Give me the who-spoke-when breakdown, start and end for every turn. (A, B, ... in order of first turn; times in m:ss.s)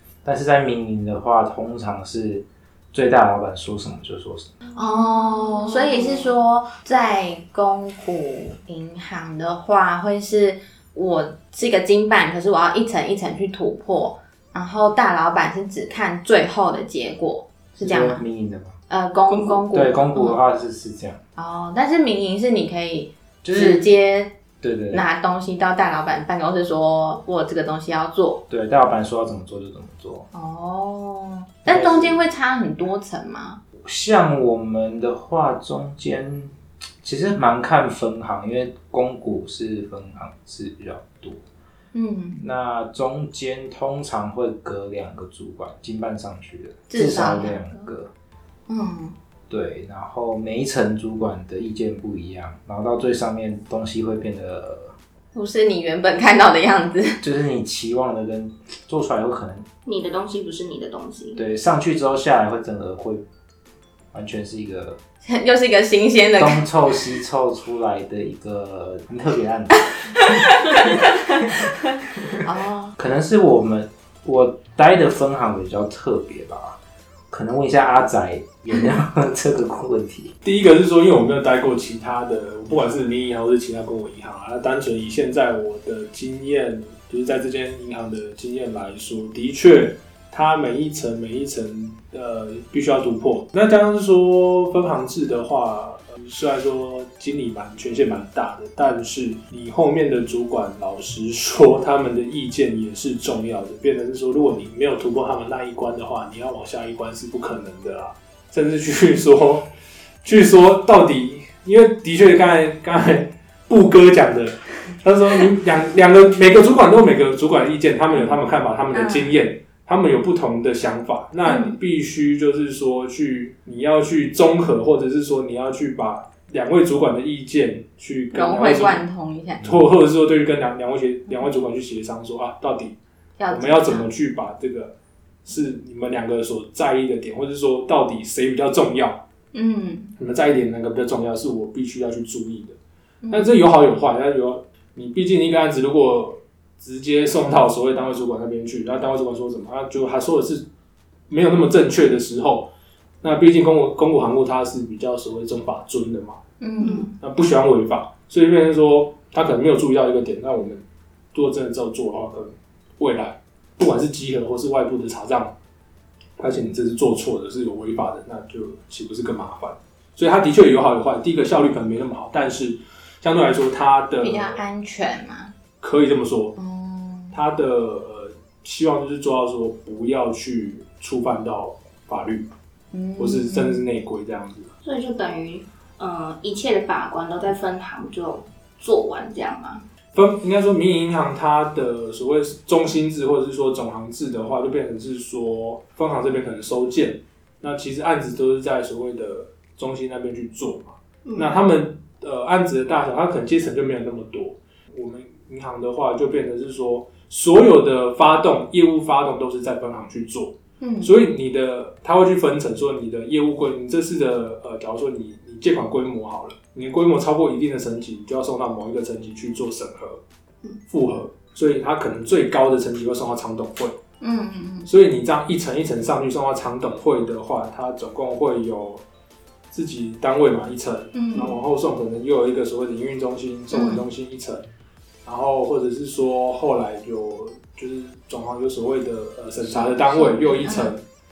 0:00.2-0:04.5 A
0:04.7-0:18.2 B
0:17.8-0:18.8 A
0:18.9-0:20.4 B
0:19.3-0:19.6 C
0:19.7-0:21.2 A
0:21.4-0:24.3 B
0:23.4-0:23.9 A
0:24.6-0:25.0 A
0:24.9-0:28.4 B
0:28.5-0:30.3 A
0:30.3-0:33.6 B
0:31.7-0:32.2 A
0:33.7-0:41.4 A
0:41.9-0:42.4 B
0:42.4-0:48.1 A
0:46.9-0:47.9 B
0:48.7-0:49.1 B
0:49.5-0:54.9 A
0:55.3-0:57.2 B
0:57.2-0:59.6 A
0:59.8-1:01.4 C
1:01.3-1:03.2 A
1:04.1-1:05.0 A
1:05.2-1:06.7 B
1:06.4-1:10.4 A
1:10.1-1:11.6 B
1:12.1-1:12.4 A
1:12.4-1:13.0 B
1:13.0-1:16.8 A
1:17.3-1:20.3 A
1:20.4-1:49.7 D
1:50.2-2:09.0 D
1:58.1-1:58.4 B
1:58.9-1:59.3 B
2:01.4-2:01.8 B
2:08.3-2:09.6 B
2:09.6-2:12.9 D
2:13.4-2:14.0 B
2:13.5-2:14.9 D
2:15.4-2:19.2 D
2:19.5-2:20.1 B
2:20.2-2:22.8 D
2:23.2-2:23.5 B
2:23.3-2:30.6 D
2:31.3-2:32.7 D
2:33.2-2:36.4 D
2:36.6-2:37.1 B
2:36.8-2:37.1 C
2:37.2-2:40.8 D
2:41.3-2:45.5 D
2:46.4-2:54.6 D
2:54.2-2:55.5 B
2:55.8-2:56.5 D
2:56.6-2:57.4 B
2:57.3-3:02.5 D
3:02.9-3:03.8 B
3:03.2-3:04.7 D
3:04.8-3:09.8 C
3:10.1-3:40.2 D
3:21.2-3:21.6 C
3:30.8-3:31.1 B
3:40.9-3:44.0 D
3:44.2-3:44.9 B
3:44.8-3:49.0 D
3:49.7-3:54.6 D
3:51.1-3:51.6 B
3:53.7-3:54.0 B
3:55.2-4:01.0 D
3:59.6-4:00.9 B